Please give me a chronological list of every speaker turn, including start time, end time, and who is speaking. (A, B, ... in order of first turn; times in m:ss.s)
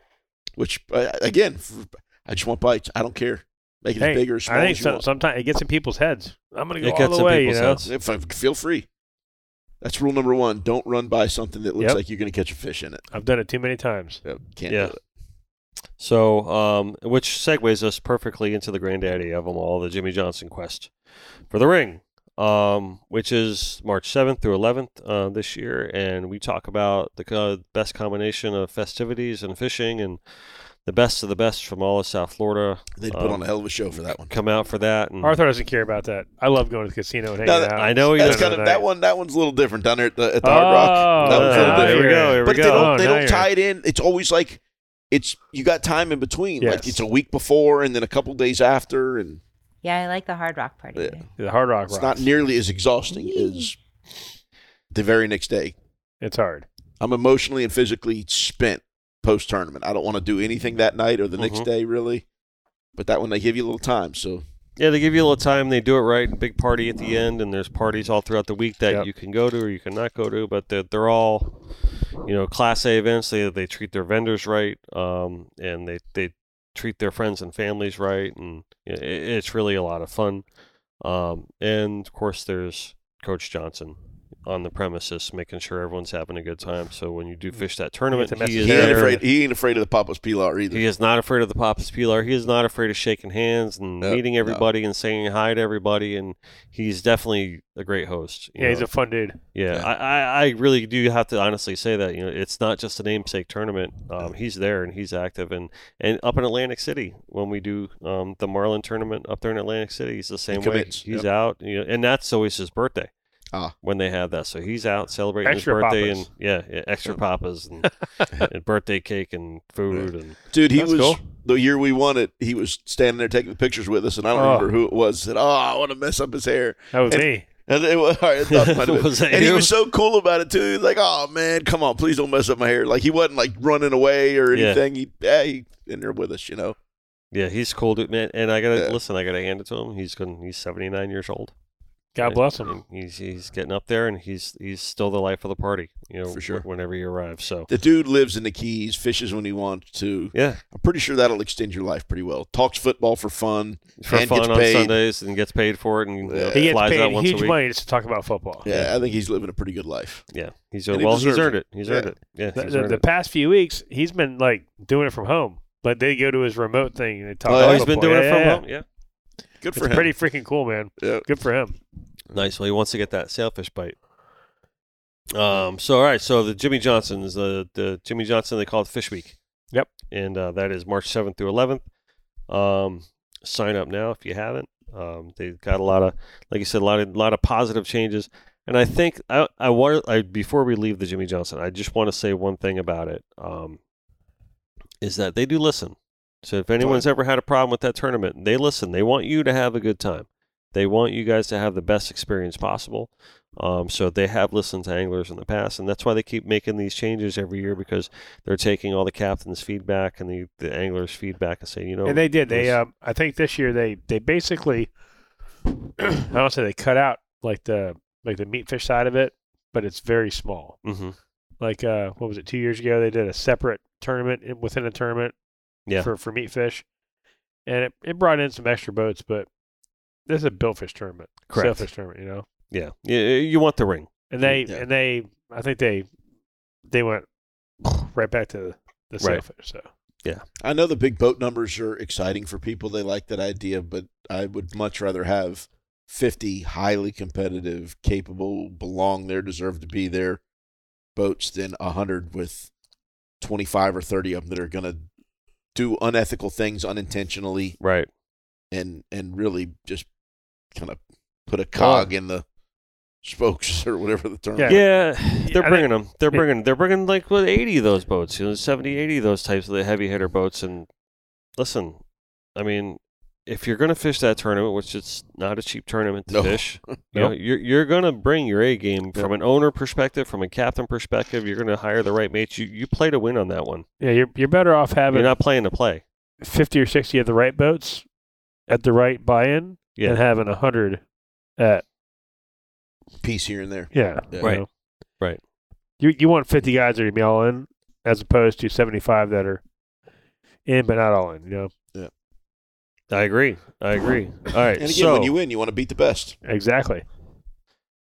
0:00.6-0:05.0 A
0:04.0-0:07.9 B
0:06.8-0:07.9 C
0:07.9-0:08.9 A
0:09.8-0:13.0 A
0:13.1-0:14.2 B
0:14.2-0:15.0 A
0:14.7-0:15.0 C
0:16.0-0:20.9 C
0:21.5-0:30.2 C
0:30.8-0:33.4 C
0:33.0-0:34.3 A
0:34.3-0:35.4 C
0:35.2-0:38.8 B
0:37.4-0:49.4 A
0:37.8-0:38.6 C
0:40.4-0:43.5 B
0:41.2-0:42.9 C
0:46.6-0:47.0 B
0:49.8-0:51.3 D
0:51.0-0:51.2 A
0:51.4-0:52.2 B
0:51.9-0:53.8 A
0:53.1-0:53.7 D
0:54.9-0:55.8 A
0:56.2-0:56.7 B
0:57.0-1:02.2 A
1:01.4-1:01.7 C
1:03.0-1:04.4 A
1:04.8-1:11.5 C
1:12.2-1:20.4 C
1:21.0-1:29.2 C
1:27.6-1:29.2 B
1:28.6-1:30.8 A
1:30.7-1:38.9 C
1:34.0-1:34.6 A
1:38.6-1:39.4 B
1:39.5-1:53.1 C
1:50.5-1:51.3 A
1:53.8-2:00.4 C
1:55.4-1:56.3 B
1:59.9-2:16.8 A
2:00.7-2:01.2 B
2:04.3-2:04.7 B
2:06.9-2:07.5 B
2:08.5-2:09.8 C
2:14.5-2:14.8 C
2:17.3-2:21.5 C
2:22.2-2:22.8 B
2:22.2-2:27.7 C
2:26.3-2:26.7 A
2:27.7-2:35.0 A
2:30.3-2:30.6 C
2:34.0-2:37.6 C
2:36.2-2:36.8 A
2:36.5-2:38.7 B
2:38.6-2:40.2 A
2:40.3-2:43.0 C
2:40.9-2:42.1 A
2:42.6-2:48.6 B
2:47.5-2:47.9 A
2:47.6-2:48.8 C
2:49.6-2:50.1 A
2:49.8-2:51.8 B
2:51.0-2:51.2 A
2:52.3-2:54.0 C
2:55.3-2:59.4 C
3:00.1-3:01.8 C
3:02.5-3:13.8 C
3:15.0-3:32.8 C
3:16.8-3:17.1 A
3:32.0-3:34.9 B
3:36.1-3:40.8 B
3:40.8-3:41.2 C
3:41.6-3:45.3 B
3:46.0-3:46.8 B
3:47.7-3:49.5 B
3:50.3-3:52.5 B
3:51.5-3:51.9 C
3:52.7-3:54.1 C
3:54.3-3:56.1 B
3:54.4-3:54.9 A
3:56.9-3:57.3 B
3:57.8-3:59.9 B
4:00.6-4:10.4 A
4:11.2-4:12.7 A
4:13.4-4:15.0 A
4:15.8-4:17.8 A
4:17.8-4:18.1 C
4:18.7-4:20.1 A
4:20.7-4:22.4 A
4:21.8-4:22.1 B
4:23.2-4:24.8 A
4:24.6-4:26.5 B
4:24.7-4:30.9 C
4:31.6-4:32.0 C
4:32.6-4:43.8 C
4:36.3-4:37.0 A
4:44.0-4:45.3 B
4:45.1-4:46.0 C
4:46.4-4:48.0 B
4:48.7-4:51.0 B
4:51.6-4:51.8 B
4:53.2-4:54.6 A
4:53.9-4:54.7 B
4:56.0-4:59.6 B
5:00.7-5:01.7 B
5:03.1-5:05.4 C
5:04.8-5:06.4 A
5:06.4-5:07.0 B